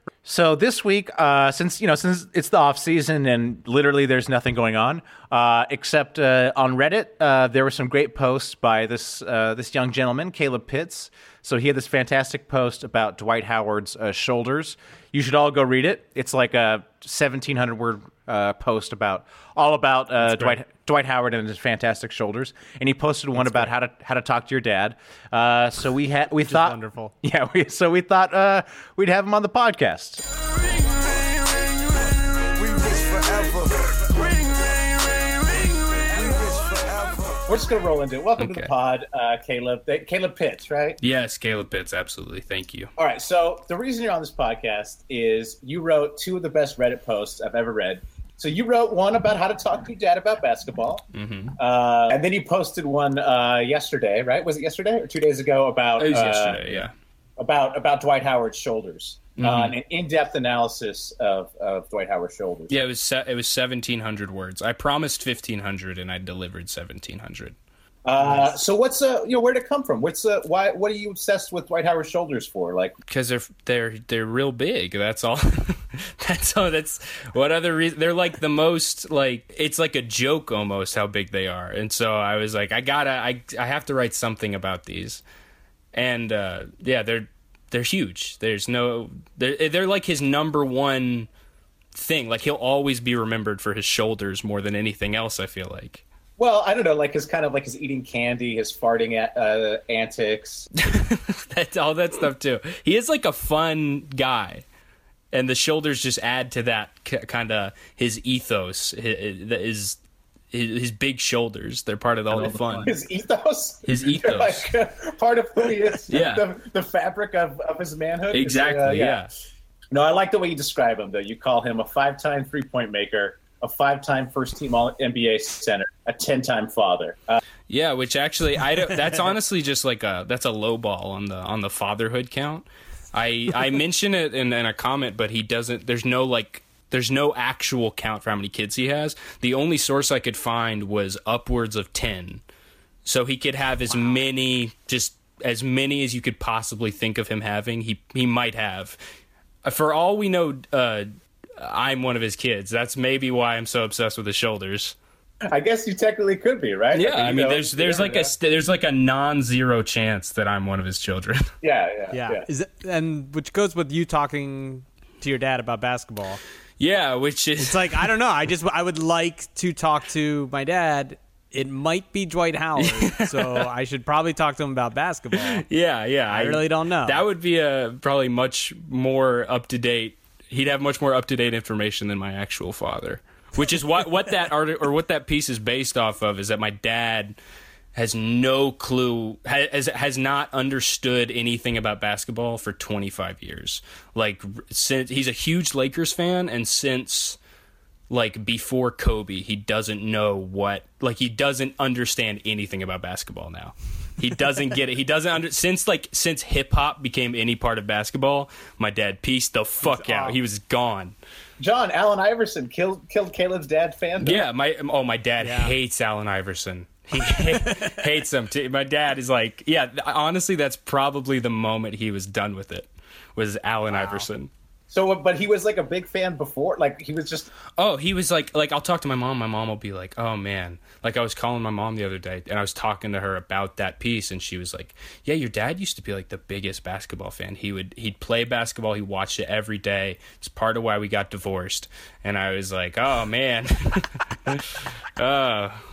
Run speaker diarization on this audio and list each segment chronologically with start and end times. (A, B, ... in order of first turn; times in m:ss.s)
0:00.2-0:30.2 A
0:20.3-0:20.6 B
0:26.4-0:27.1 B
0:30.6-0:31.7 C
0:32.6-0:37.5 C
0:37.5-0:41.0 A
0:38.4-0:38.7 D
0:41.0-0:42.9 D
0:43.0-0:51.0 A
0:51.1-0:51.5 D
0:51.6-0:56.9 A
0:56.0-0:56.9 D
0:57.4-1:02.8 A
0:59.4-0:59.8 D
1:02.7-1:07.6 D
1:08.0-1:13.0 A
1:13.1-1:25.2 D
1:25.9-1:31.3 D
1:32.0-1:36.0 D
1:36.4-1:40.7 A
1:40.8-1:44.6 D
1:45.3-1:50.0 D
1:50.5-1:53.0 D
1:52.3-1:59.2 A
1:53.9-1:54.7 D
1:56.1-1:56.5 D
1:58.3-1:59.3 D
1:59.9-2:07.4 A
2:07.7-2:22.4 D
2:23.1-2:29.0 D
2:29.6-2:35.0 D
2:35.5-2:38.3 A
2:36.9-2:41.5 D
2:41.6-2:42.5 A
2:42.1-2:46.4 B
2:46.8-2:48.1 D
2:47.6-2:55.6 B
2:52.8-2:53.6 D
2:55.3-3:07.4 D
2:56.3-2:57.2 B
3:08.0-3:17.4 D
3:18.1-3:31.2 D
3:29.8-3:30.4 B
3:31.6-3:34.4 A
3:34.2-3:44.5 D
3:35.4-3:35.7 B
3:37.1-3:38.0 B
3:44.9-3:47.5 A
3:47.8-4:05.8 D